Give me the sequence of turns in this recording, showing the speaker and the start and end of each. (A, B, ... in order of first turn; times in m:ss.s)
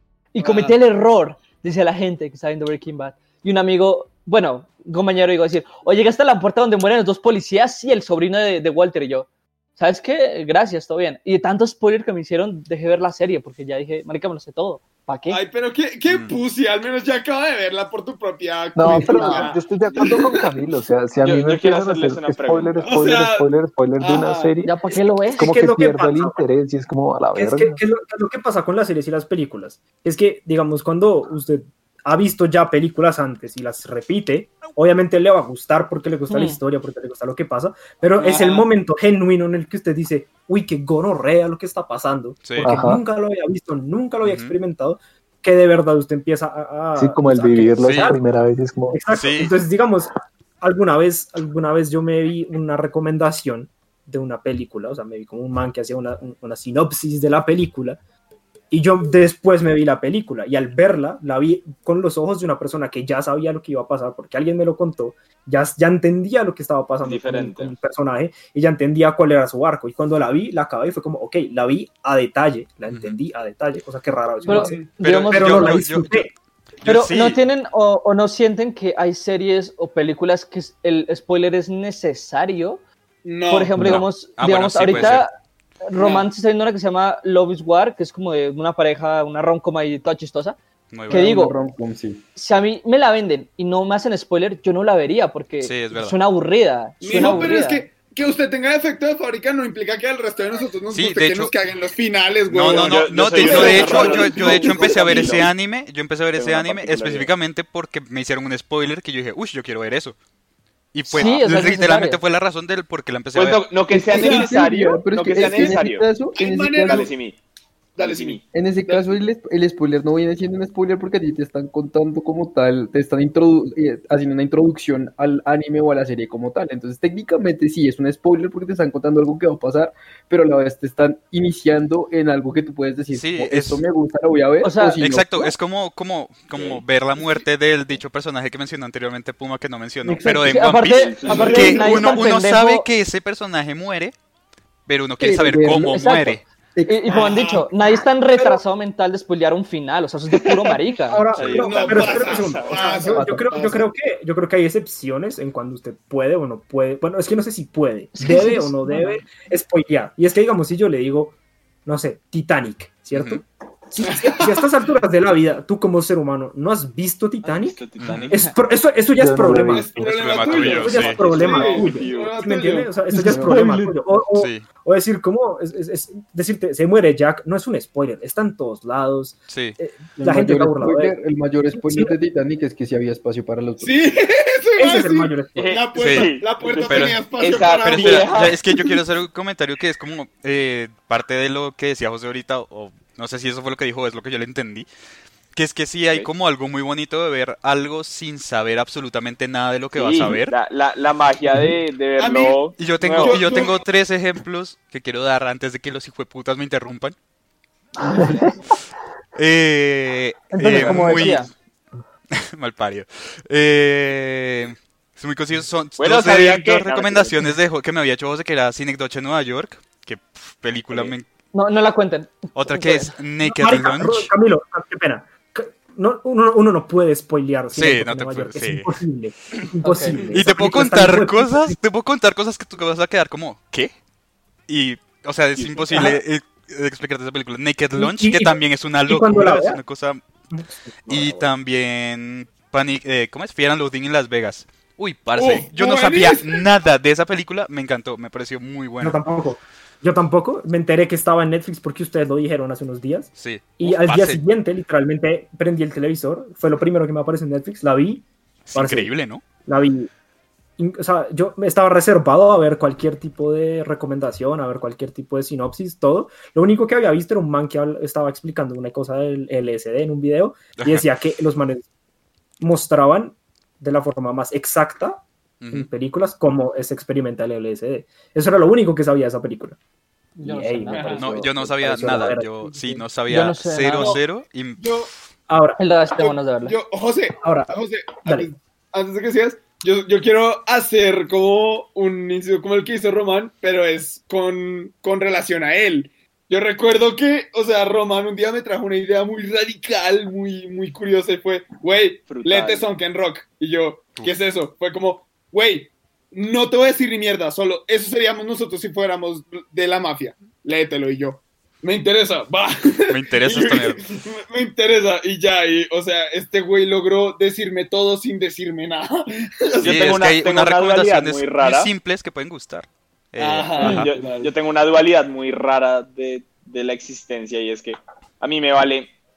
0:00.3-0:15.4 A
0:00.4-0:00.8 B
0:15.3-0:20.4 B
0:16.1-0:16.4 C
0:18.8-0:27.8 D
0:19.0-0:19.5 A
0:21.2-0:23.0 E
0:22.8-0:24.6 B
0:24.6-0:25.5 A
0:25.3-0:26.5 F
0:27.3-0:48.2 F
0:36.3-0:36.6 A
0:38.2-0:38.7 B
0:42.6-0:43.0 D
0:44.2-0:44.6 C
0:47.0-0:49.0 D
0:47.8-0:48.1 C
0:48.9-0:58.0 F
0:49.1-0:49.6 C
0:58.7-1:16.3 F
1:07.0-1:07.8 E
1:12.9-1:13.2 C
1:14.4-1:15.8 A
1:14.5-1:15.0 B
1:15.0-1:16.3 C
1:16.8-1:17.4 C
1:16.8-1:22.8 A
1:23.2-1:24.0 B
1:23.5-1:25.3 A
1:23.8-1:25.3 C
1:25.9-1:30.6 A
1:26.0-1:26.3 B
1:30.9-1:31.3 C
1:31.1-1:32.2 G
1:31.1-1:31.6 A
1:32.4-1:37.9 A
1:35.6-1:36.2 C
1:37.0-1:45.5 B
1:40.9-1:41.5 C
1:42.5-1:50.2 C
1:42.7-1:45.5 E
1:46.4-1:47.3 E
1:50.9-1:53.8 C
1:51.1-1:52.2 A
1:53.4-1:56.1 E
1:53.9-1:57.1 G
1:54.1-1:54.7 B
1:55.3-1:55.8 B
1:56.4-1:57.1 B
1:56.8-1:57.4 E
1:58.0-1:59.2 B
1:58.0-1:58.4 E
1:58.5-2:15.6 G
2:13.1-2:13.8 C
2:14.6-2:15.0 A
2:15.0-2:24.2 C
2:16.5-2:16.8 E
2:20.2-2:22.9 A
2:20.9-2:22.0 E
2:21.2-2:22.2 B
2:24.9-2:26.4 C
2:25.2-2:26.0 G
2:25.8-2:31.3 A
2:26.8-2:27.3 G
2:27.1-2:27.7 B
2:31.1-2:47.8 F
2:31.4-2:32.1 C
2:31.5-2:33.9 B
2:31.6-2:32.8 E
2:33.1-2:33.5 G
2:38.2-2:39.2 A
2:43.1-2:43.4 C
2:47.4-2:48.3 E
2:48.0-2:48.4 C
2:48.3-2:49.9 F
2:49.2-2:50.2 D
2:49.6-2:53.0 B
2:50.0-2:51.2 C
2:50.4-2:52.4 E
2:50.6-3:01.2 F
2:53.1-2:54.0 G
2:54.3-2:54.6 C
2:59.5-2:59.8 C
3:00.2-3:04.0 G
3:01.7-3:02.2 F
3:03.8-3:09.0 B
3:04.8-3:05.8 F
3:05.6-3:08.6 E
3:06.0-3:06.3 C
3:06.8-3:14.9 C
3:15.5-3:20.6 C
3:19.9-3:23.6 E
3:22.2-3:23.8 B
3:22.8-3:27.2 C
3:29.4-3:31.5 C
3:30.5-3:31.5 A
3:32.3-3:41.3 C
3:36.0-3:37.5 E
3:40.9-3:41.2 E
3:41.5-3:43.2 A
3:42.5-3:44.3 C
3:43.4-3:51.8 F
3:47.7-3:49.0 C
3:49.8-3:50.3 A
3:50.3-3:54.0 C
3:54.7-4:00.2 C
3:55.6-3:56.0 E
3:55.9-3:56.2 F
3:58.0-3:59.8 F
4:00.5-4:01.2 F
4:01.1-4:09.2 C
4:01.1-4:01.5 E
4:05.4-4:06.6 B
4:09.0-4:19.1 F
4:13.4-4:14.4 C
4:18.7-4:19.4 C
4:19.6-4:20.1 F
4:20.8-4:31.9 F
4:30.8-4:31.0 C
4:32.6-4:39.8 F
4:35.6-4:35.9 C
4:40.4-4:41.2 A
4:40.4-4:43.0 F
4:40.9-4:41.2 B
4:41.2-4:45.0 C
4:43.3-4:44.2 A
4:44.8-4:45.1 B
4:45.5-4:45.8 F
4:45.8-4:46.8 A
4:46.1-5:20.2 B
4:47.4-4:47.7 F
4:48.2-4:48.5 F
5:02.3-5:02.9 E
5:13.1-5:14.0 C
5:19.8-5:21.9 E
5:19.8-5:24.1 C
5:23.4-5:24.5 B
5:23.8-5:29.1 E